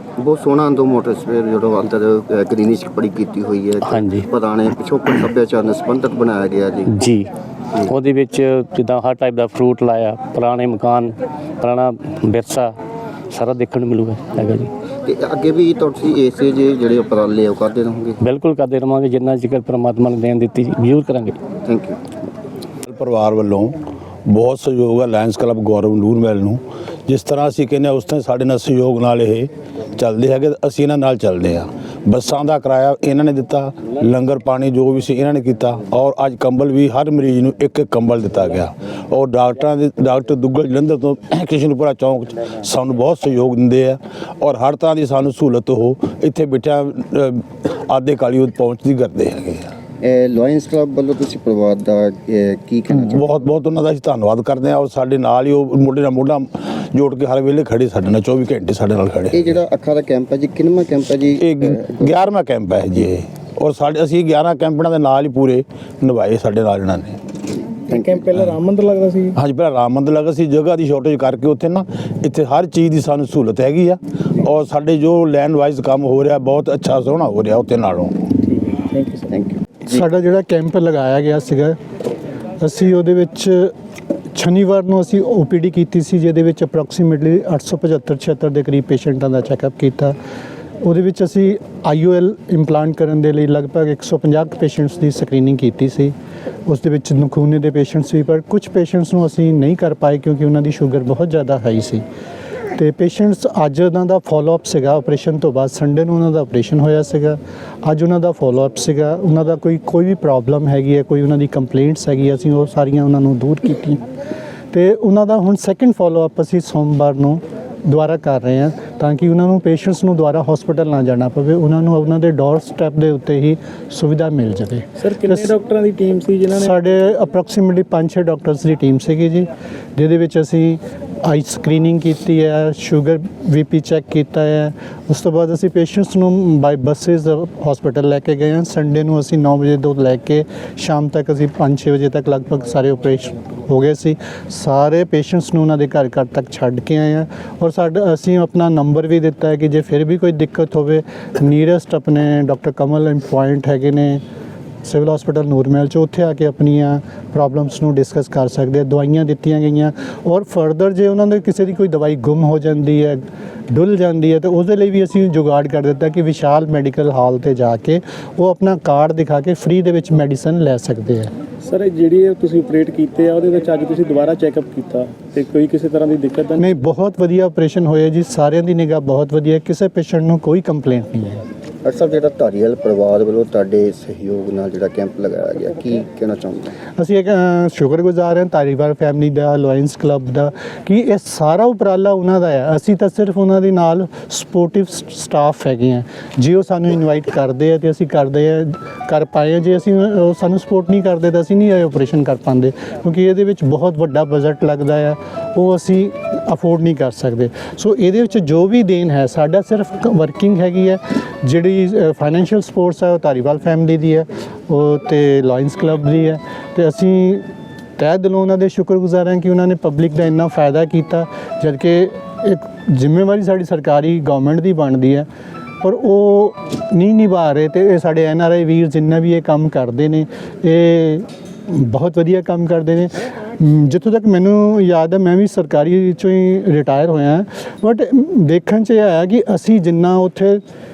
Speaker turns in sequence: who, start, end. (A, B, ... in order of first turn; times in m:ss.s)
0:00.2-0:06.9 A
0:03.8-0:04.3 B
0:06.9-0:07.3 B
0:07.8-0:12.8 B
0:13.3-0:14.7 B
0:15.1-0:18.2 A
0:18.2-0:21.4 B
0:21.7-0:22.0 A
0:22.9-0:23.7 C
0:24.3-0:49.7 C
0:50.0-0:53.2 A
0:53.0-0:59.6 C
0:59.4-1:02.0 A
1:01.3-1:07.2 C
1:07.8-1:09.4 D
1:07.9-1:08.2 A
1:08.3-1:08.6 C
1:09.4-1:18.2 C
1:18.4-1:19.3 D
1:19.3-1:20.0 A
1:19.9-1:21.8 E
1:22.6-1:23.7 E
1:24.4-1:30.2 E
1:30.8-1:36.1 E
1:36.7-1:42.0 E
1:42.8-1:54.0 E
1:54.7-2:05.5 E
2:05.0-2:07.1 D
2:06.6-2:34.2 E
2:34.8-2:43.2 E
2:43.7-2:51.3 E
2:51.6-2:56.8 D
2:56.6-3:01.4 E
3:01.8-3:06.7 A
3:07.0-3:37.5 E
3:38.0-3:45.3 E
3:45.8-4:00.6 E